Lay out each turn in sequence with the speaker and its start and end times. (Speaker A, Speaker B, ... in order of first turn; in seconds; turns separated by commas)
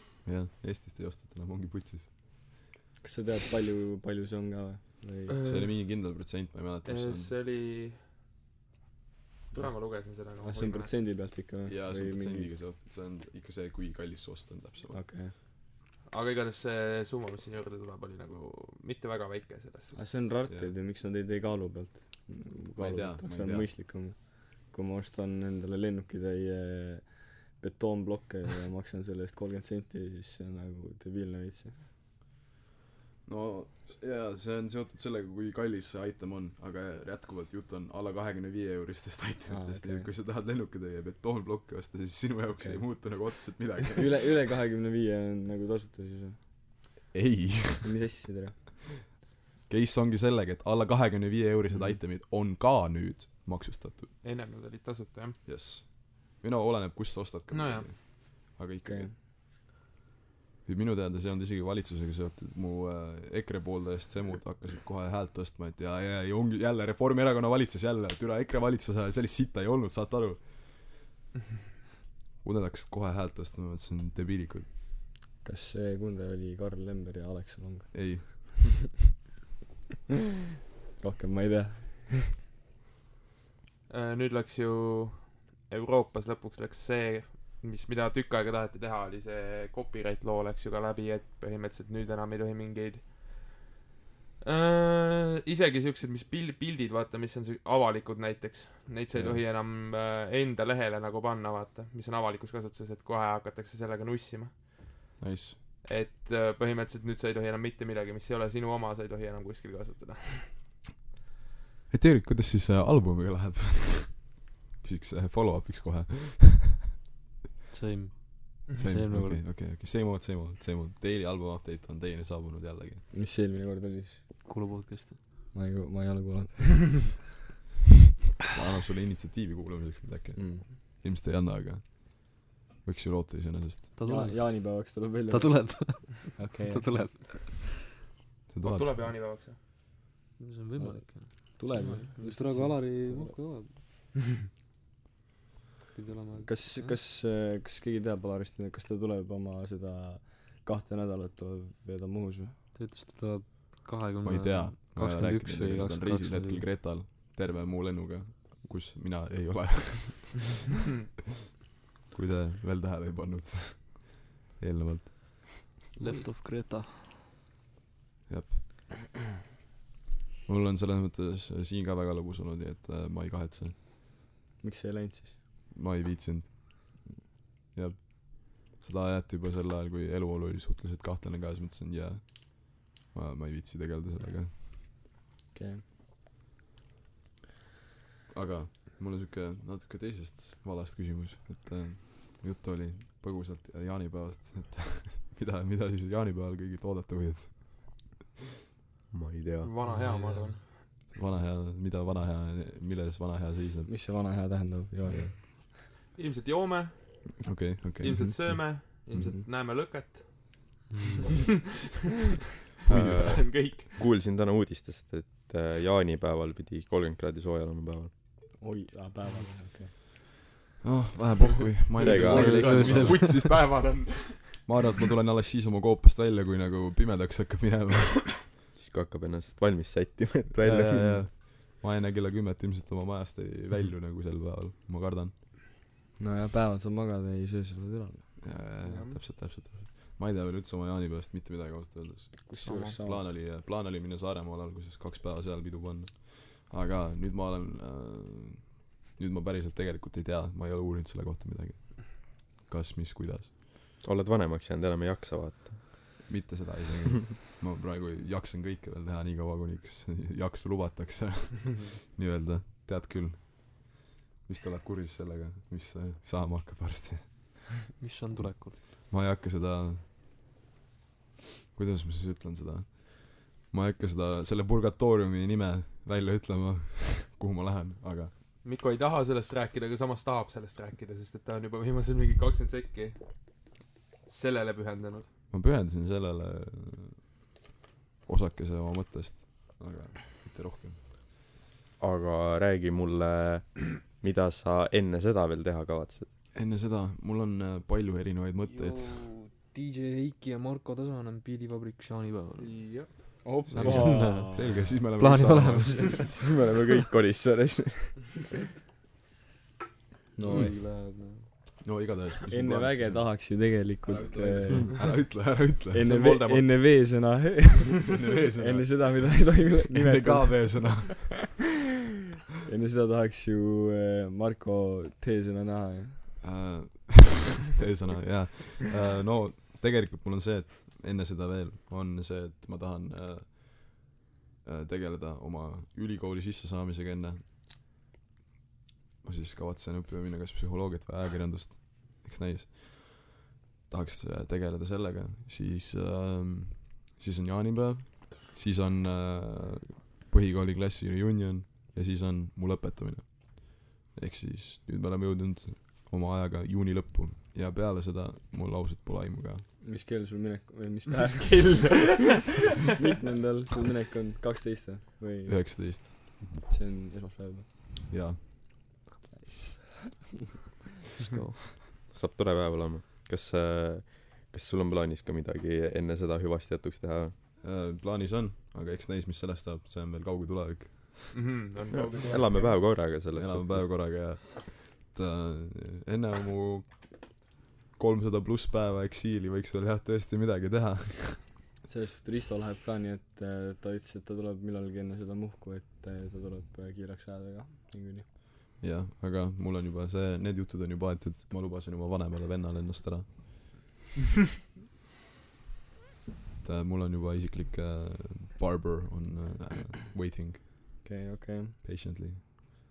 Speaker A: 0.2-2.2, Speaker B: 3.0-5.4, Speaker C: 5.3-6.0, Speaker A: 5.4-7.3, Speaker C: 6.9-8.0, Speaker C: 9.5-10.9, Speaker B: 9.5-12.6, Speaker A: 11.7-15.0, Speaker B: 14.9-15.3, Speaker C: 16.1-20.1, Speaker B: 19.9-31.9, Speaker A: 20.5-20.7, Speaker A: 22.8-23.7, Speaker A: 33.2-44.1, Speaker B: 39.5-40.1, Speaker B: 42.6-43.4, Speaker B: 44.0-46.4, Speaker A: 47.1-47.9, Speaker B: 47.8-48.6, Speaker A: 49.7-54.1, Speaker B: 51.7-52.0, Speaker C: 54.2-55.4, Speaker A: 55.5-59.1, Speaker C: 57.5-57.9, Speaker B: 58.9-59.1, Speaker A: 60.6-70.7, Speaker A: 72.4-74.7, Speaker B: 75.4-78.5, Speaker A: 77.9-78.8, Speaker B: 81.0-82.3, Speaker C: 83.9-93.6, Speaker C: 94.4-104.6, Speaker A: 99.1-99.4, Speaker A: 105.2-105.6, Speaker C: 105.8-110.6, Speaker A: 111.9-116.8, Speaker D: 117.7-119.4, Speaker A: 118.8-123.0, Speaker B: 123.1-124.7, Speaker D: 124.4-125.2, Speaker B: 125.5-127.2, Speaker A: 128.5-133.9, Speaker B: 130.3-130.7, Speaker D: 133.9-137.7, Speaker B: 134.0-137.2, Speaker A: 138.5-139.1, Speaker C: 138.6-139.6, Speaker D: 140.4-143.8, Speaker B: 140.8-143.6, Speaker D: 145.9-147.0, Speaker B: 146.4-152.6, Speaker D: 152.7-156.7, Speaker A: 154.2-160.6, Speaker A: 162.1-165.7, Speaker D: 166.0-167.2, Speaker A: 168.3-168.6, Speaker A: 170.5-173.8, Speaker B: 174.6-175.4, Speaker A: 175.7-176.6, Speaker A: 177.7-184.6, Speaker B: 185.5-185.8, Speaker A: 188.3-198.1, Speaker E: 199.1-199.7, Speaker C: 199.6-200.8, Speaker D: 199.8-200.6, Speaker A: 201.1-203.9, Speaker B: 203.9-205.6, Speaker A: 205.1-205.3, Speaker C: 205.6-207.5, Speaker A: 207.4-209.4, Speaker C: 208.0-210.8, Speaker B: 209.2-209.4, Speaker D: 210.9-211.2, Speaker A: 212.9-213.5, Speaker E: 212.9-218.1, Speaker C: 213.1-213.9, Speaker B: 218.6-219.9, Speaker A: 220.8-223.4, Speaker C: 222.0-224.7, Speaker E: 222.0-223.0, Speaker D: 222.1-223.6, Speaker A: 224.7-228.4, Speaker E: 228.8-231.3, Speaker A: 230.5-235.3, Speaker B: 236.2-238.4, Speaker A: 238.4-253.5, Speaker C: 238.8-239.2, Speaker B: 242.5-243.3, Speaker C: 242.7-242.9, Speaker E: 254.0-256.3, Speaker A: 256.3-267.6, Speaker D: 268.0-268.8, Speaker A: 268.4-270.0, Speaker A: 271.7-278.3, Speaker C: 278.6-283.7, Speaker C: 284.3-285.3, Speaker A: 285.5-287.2, Speaker A: 288.3-291.0, Speaker E: 292.0-296.3, Speaker A: 296.5-299.3, Speaker D: 298.7-306.3, Speaker C: 302.6-304.0, Speaker A: 303.7-306.1, Speaker B: 303.8-305.1, Speaker E: 306.2-308.3, Speaker B: 310.4-310.8, Speaker D: 310.5-311.5, Speaker A: 311.8-316.7, Speaker B: 312.5-315.2, Speaker B: 315.9-321.2, Speaker A: 318.1-321.6, Speaker B: 322.6-326.3, Speaker A: 326.4-337.4, Speaker A: 339.2-359.7, Speaker B: 359.8-362.4, Speaker B: 362.9-368.1, Speaker A: 365.5-366.4, Speaker A: 368.1-368.8, Speaker D: 371.2-371.8, Speaker E: 372.1-377.3, Speaker A: 377.6-381.4, Speaker C: 381.3-383.0, Speaker E: 382.2-384.1, Speaker A: 383.3-387.4, Speaker A: 388.0-391.5, Speaker B: 391.9-398.3, Speaker A: 398.8-403.8, Speaker A: 406.6-410.6, Speaker B: 411.0-411.8, Speaker A: 411.8-412.4